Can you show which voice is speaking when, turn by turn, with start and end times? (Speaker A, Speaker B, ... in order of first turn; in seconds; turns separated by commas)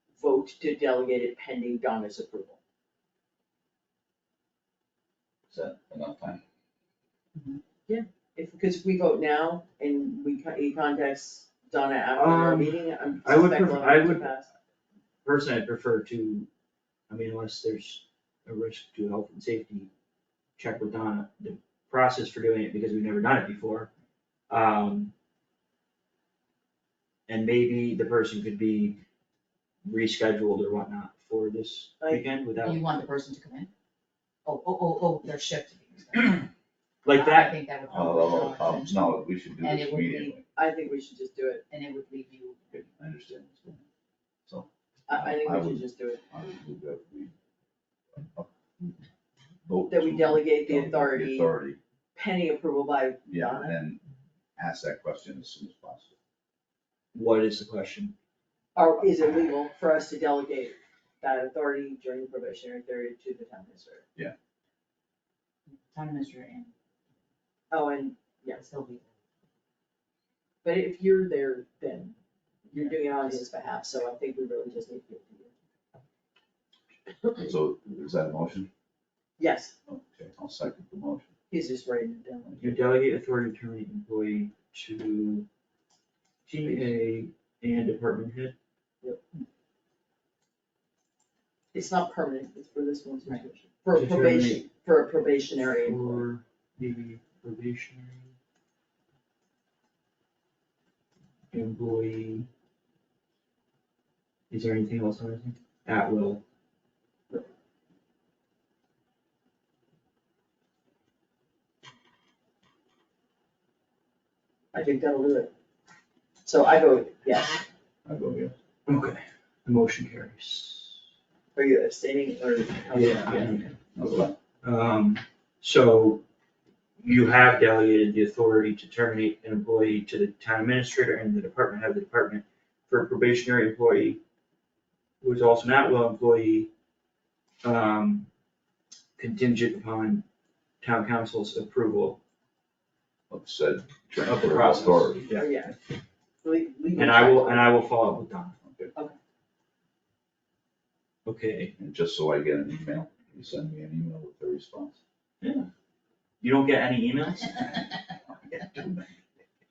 Speaker A: 0.2-2.6, Speaker B: 5.5-6.4, Speaker A: 7.9-14.5, Speaker C: 12.1-14.4, Speaker C: 15.2-16.5, Speaker C: 17.1-19.9, Speaker C: 20.6-23.9, Speaker C: 24.5-25.1, Speaker C: 27.3-29.0, Speaker C: 29.8-32.9, Speaker A: 32.0-32.3, Speaker D: 32.6-33.7, Speaker D: 34.5-36.5, Speaker C: 37.0-37.6, Speaker D: 37.1-40.4, Speaker B: 37.9-40.4, Speaker A: 40.5-41.6, Speaker D: 41.7-42.8, Speaker B: 42.7-43.9, Speaker B: 44.5-47.3, Speaker A: 45.1-46.2, Speaker B: 48.2-48.5, Speaker B: 49.7-51.8, Speaker A: 49.9-51.5, Speaker A: 52.1-53.8, Speaker B: 53.3-54.0, Speaker B: 54.6-56.1, Speaker C: 57.1-58.1, Speaker A: 58.8-64.0, Speaker D: 65.7-66.7, Speaker A: 67.7-68.6, Speaker D: 68.5-69.2, Speaker A: 70.6-72.2, Speaker A: 72.7-75.5, Speaker D: 72.7-73.5, Speaker B: 77.4-78.7, Speaker A: 79.4-79.7, Speaker B: 79.9-81.3, Speaker A: 81.5-82.7, Speaker C: 82.6-85.5, Speaker C: 86.5-88.5, Speaker A: 86.6-86.9, Speaker A: 91.7-96.2, Speaker C: 93.9-94.7, Speaker C: 95.5-98.3, Speaker C: 101.5-102.5, Speaker C: 104.5-106.4, Speaker A: 114.7-115.5, Speaker A: 116.5-117.6, Speaker B: 118.0-118.5, Speaker C: 118.9-121.0, Speaker A: 121.5-123.7, Speaker C: 122.9-123.8, Speaker B: 124.0-124.3, Speaker C: 124.6-126.2, Speaker C: 127.0-134.2, Speaker C: 135.2-136.7, Speaker C: 137.6-138.3, Speaker C: 139.2-140.2, Speaker C: 140.8-142.2, Speaker B: 143.3-145.3, Speaker C: 144.2-145.6, Speaker A: 145.3-145.8, Speaker A: 146.4-147.8, Speaker C: 146.9-148.6, Speaker B: 148.6-148.9, Speaker C: 151.3-151.7, Speaker B: 151.8-155.0, Speaker C: 155.4-155.7, Speaker C: 156.4-157.9, Speaker B: 158.3-159.1